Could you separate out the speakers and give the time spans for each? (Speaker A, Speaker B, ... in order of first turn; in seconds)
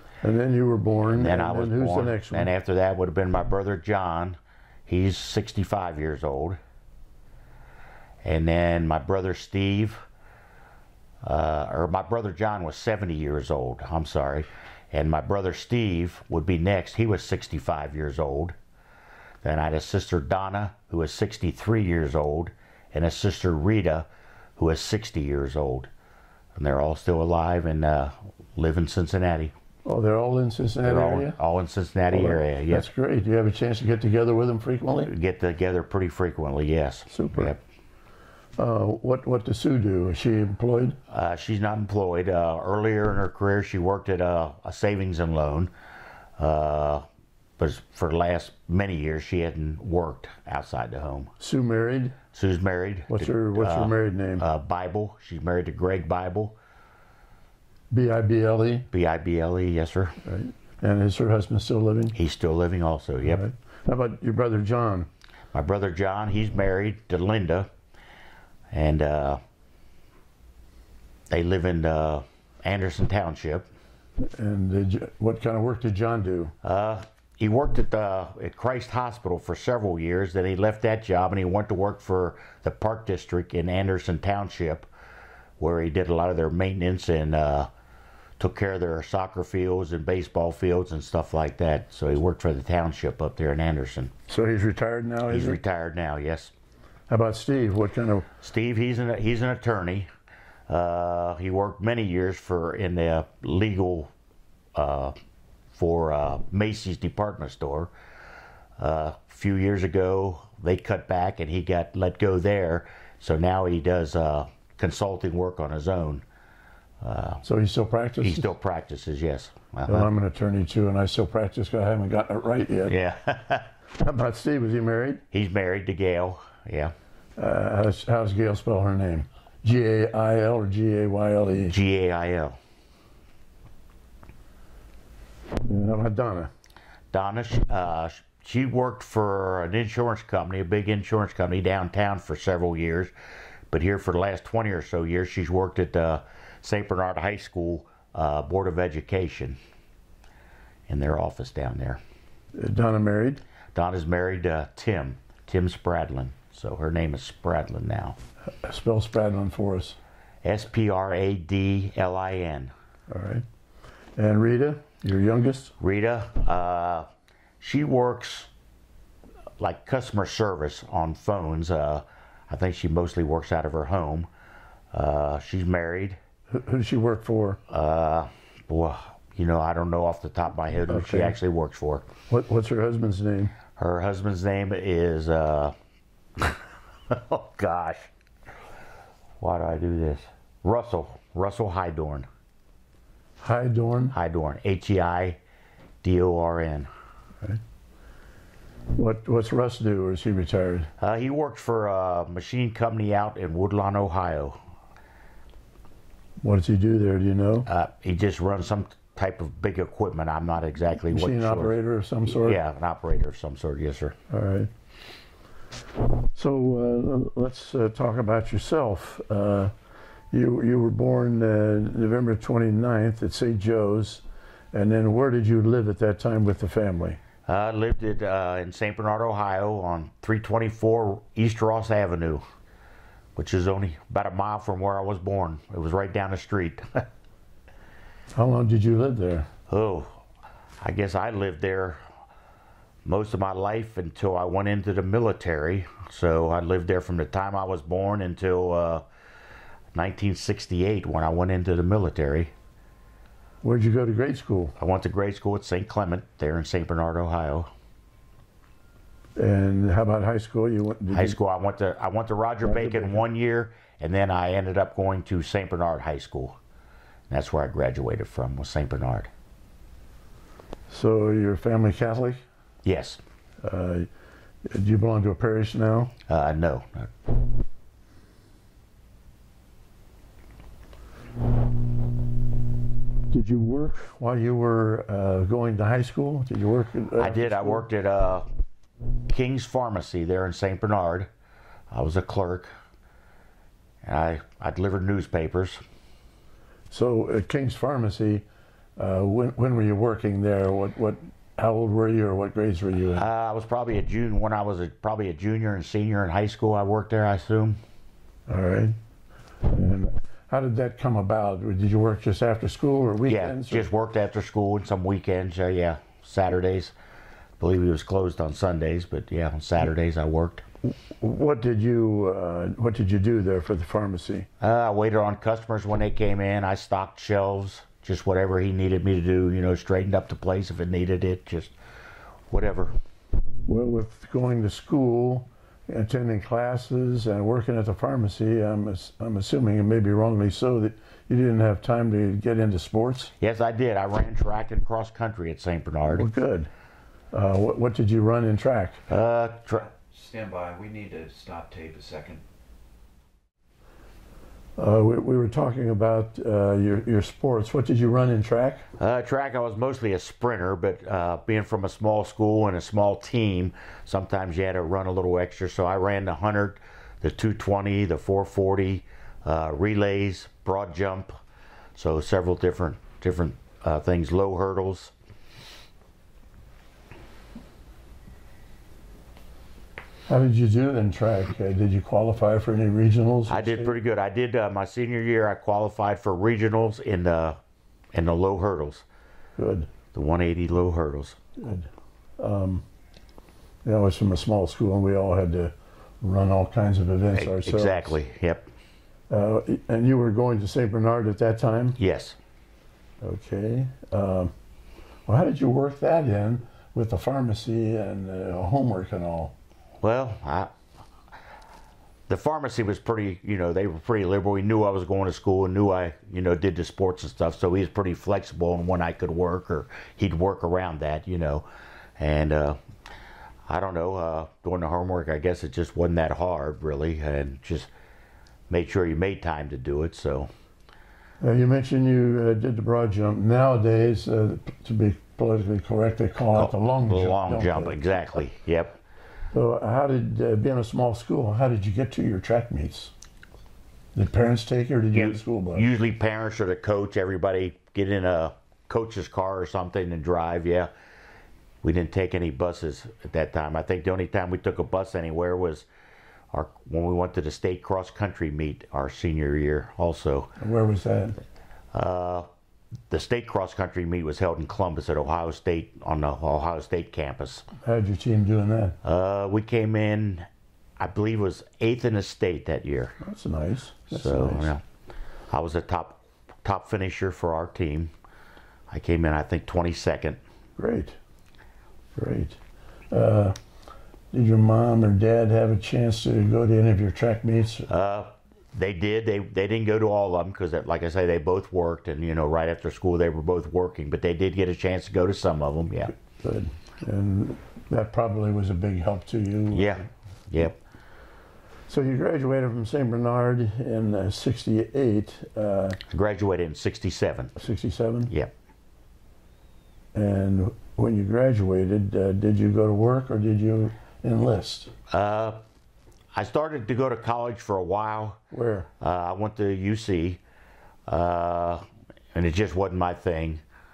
Speaker A: 0.2-2.5, 29.9-31.4, 32.1-35.1, 37.1-37.5, 38.6-41.0, 51.4-52.2, 53.1-54.4, 57.9-58.9, 60.2-62.1, 63.2-65.1, 74.2-76.5, 94.3-95.6, 97.1-98.3, 117.4-118.5, 119.8-122.9, 124.0-125.2, 127.4-131.8, 135.6-136.5, 152.5-153.4, 158.6-160.0, 163.1-163.4, 164.2-165.7, 176.5-177.6, 180.9-181.4, 182.3-183.5, 193.4-194.2, 198.9-200.9, 206.4-207.7, 211.1-212.6, 214.3-214.7, 216.2-219.7, 220.3-227.2, 238.3-239.5, 253.6-254.7, 259.4-261.4, 262.6-263.2, 270.9-272.4, 273.6-274.1, 274.6-276.1, 283.3-287.9, 296.9-298.4, 299.0-303.2, 308.5-308.9, 309.6-313.9, 320.8-324.5, 333.6-343.3, 346.1-346.7, 347.3-349.0, 354.8-358.9, 380.3-383.9, 389.6-389.9, 391.6-392.8, 393.8-398.2, 399.3-402.0, 403.2-404.5, 405.3-409.5, 431.4-438.0, 439.5-443.1, 444.1-445.9, 460.6-461.4, 467.8-468.9, 473.2-474.7, 480.8-481.2, 482.1-482.6, 483.1-483.6, 484.3-487.9, 496.3-500.1, 501.9-506.0, 507.6-508.3, 510.1-514.9, 518.5-518.9
Speaker B: 1.1-6.6, 8.2-10.0, 11.2-18.6, 19.4-25.9, 26.5-29.5, 30.8-32.9, 35.1-37.6, 41.1-45.7, 46.4-47.0, 47.6-51.3, 52.3-56.5, 58.9-60.2, 62.1-63.4, 65.5-67.7, 68.7-69.4, 71.3-73.7, 76.6-84.9, 85.6-87.7, 88.4-94.1, 95.3-96.5, 98.4-100.1, 100.7-104.1, 104.7-105.1, 105.8-107.9, 108.8-116.2, 117.0-117.4, 118.2-120.1, 122.9-123.7, 125.3-126.9, 131.7-132.6, 137.1-143.1, 143.7-149.6, 150.9-152.0, 153.7-158.2, 160.4-162.7, 165.8-167.1, 167.6-168.5, 169.6-174.3, 174.9-176.2, 177.7-182.1, 183.8-185.7, 186.4-188.1, 189.4-192.2, 194.1-195.4, 196.0-196.9, 201.0-204.6, 207.7-214.2, 227.4-232.4, 233.3-237.1, 239.7-240.2, 240.8-242.0, 243.0-249.0, 249.9-252.5, 254.8-257.7, 261.1-266.6, 267.3-269.3, 272.8-273.2, 276.3-277.1, 287.2-288.4, 289.3-291.3, 291.9-292.7, 294.0-295.8, 303.1-307.8, 313.2-316.9, 317.6-320.6, 324.6-331.7, 332.5-332.9, 343.4-346.3, 349.1-349.9, 359.0-371.3, 371.9-375.1, 383.5-387.6, 388.1-389.0, 390.1-391.4, 397.3-398.7, 402.0-402.4, 410.0-410.7, 412.3-421.6, 422.2-422.8, 423.7-427.9, 428.7-430.5, 436.5-439.0, 445.1-450.9, 451.8-455.9, 456.5-460.6, 461.9-462.5, 463.1-467.6, 469.0-470.5, 471.0-473.2, 474.1-474.8, 475.5-478.1, 478.9-480.4, 487.9-496.1, 499.7-500.8, 506.1-507.5, 515.1-515.6, 516.3-518.4, 519.0-520.4, 521.1-523.6
Speaker C: 349.7-352.4